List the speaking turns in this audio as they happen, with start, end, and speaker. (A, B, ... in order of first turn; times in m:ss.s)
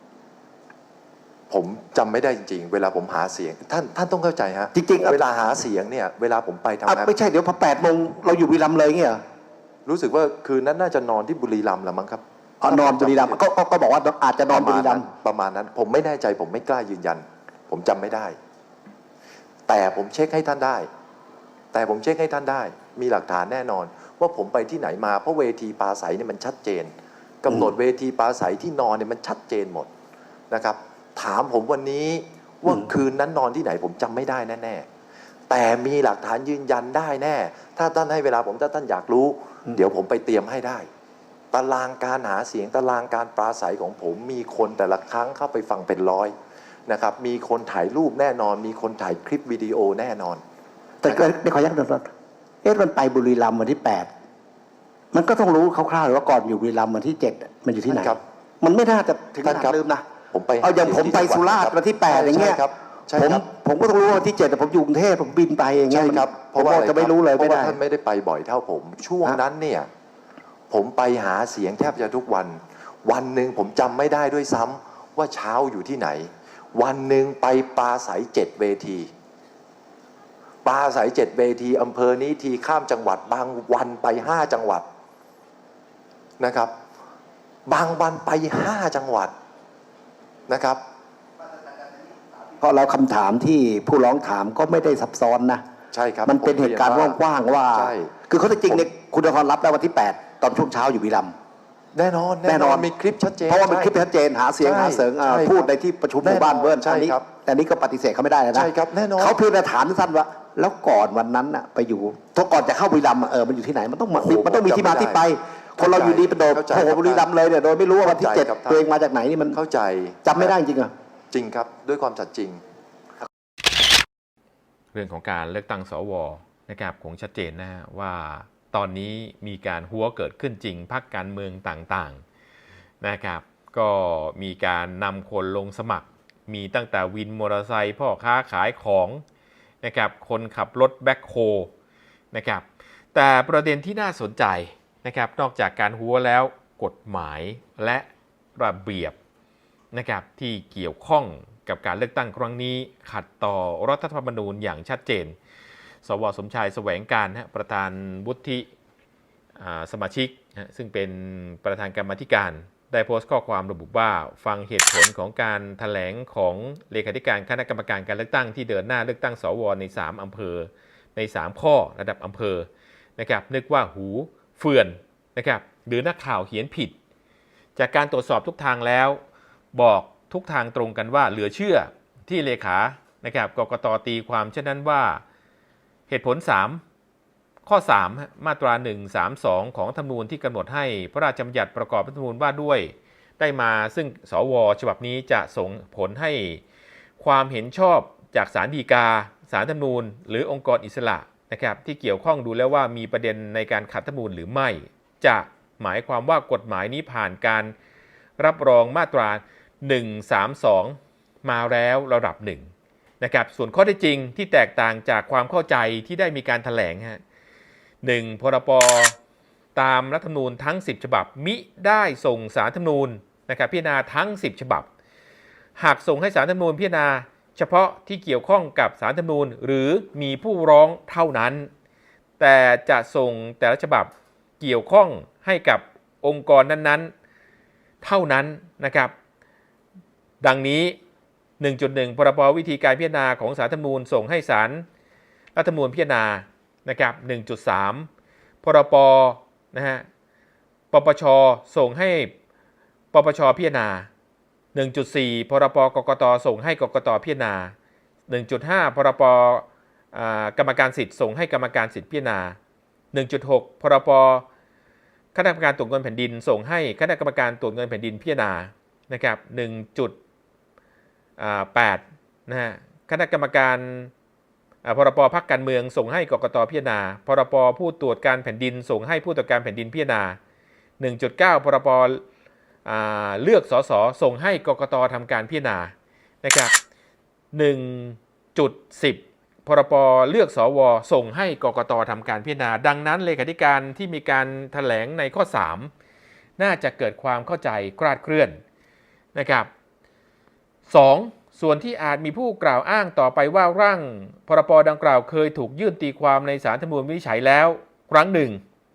0:01.5-0:07.1 A
0:04.7-0:05.2 B
0:06.9-0:09.2 B
0:09.9-0:13.4 A
0:12.6-0:15.1 B
0:14.5-0:18.4 A
0:19.7-0:20.9 A
0:21.7-0:29.9 A
0:30.5-0:34.9 A
0:35.5-0:40.9 A
0:41.5-0:46.4 A
0:46.9-0:50.4 A
0:51.0-0:52.1 B
0:52.6-0:54.1 B
0:55.1-1:00.1 B
0:57.9-0:58.2 A
0:59.4-0:59.8 A
1:00.3-1:03.4 A
1:00.6-1:02.6 B
1:03.2-1:07.8 B
1:05.9-1:09.9 A
1:10.7-1:19.1 A
1:20.6-1:24.8 A
1:26.4-1:26.7 A
1:27.7-1:29.3 A
1:30.5-1:30.8 A
1:32.6-1:35.6 B
1:35.9-1:37.2 A
1:36.3-1:41.4 B
1:37.7-1:38.1 A
1:41.9-1:44.0 A
1:42.5-1:42.9 B
1:43.5-1:59.6 B
1:44.6-1:45.7 A
1:46.2-1:47.2 A
1:48.5-1:49.4 A
1:54.2-1:55.2 A
1:55.8-1:57.3 A
1:58.0-1:58.8 A
1:59.5-2:00.5 A
2:00.2-2:00.9 B
2:01.3-2:02.6 A
2:04.9-2:12.2 C
2:13.0-2:19.2 C
2:19.8-2:21.7 C
2:22.3-2:29.2 C
2:29.9-2:35.4 C
2:36.0-2:38.7 C
2:39.6-2:57.0 C
2:57.8-2:59.2 C
2:59.7-3:05.2 C
3:06.1-3:06.8 C
3:07.7-3:16.6 C
3:17.2-3:27.8 C
3:28.4-3:37.2 C
3:38.0-3:39.2 C
3:39.8-3:44.9 C
3:45.8-3:51.7 C
3:52.4-3:57.1 C
3:58.0-3:59.1 C
4:00.4-4:01.0 C
4:01.6-4:04.9 C
4:05.6-4:08.1 C
4:08.6-4:10.1 C
4:10.9-4:12.4 C
4:13.1-4:14.1 C
4:14.7-4:17.8 C
4:18.3-4:22.6 C
4:23.1-4:24.5 C
4:25.3-4:30.2 C
4:31.4-4:34.1 C
4:34.8-4:40.4 C
4:41.0-4:42.2 C
4:42.8-4:46.7 C
4:47.5-4:55.9 C
4:56.6-4:58.6 C
4:59.4-4:59.7 C
5:00.9-5:08.6 C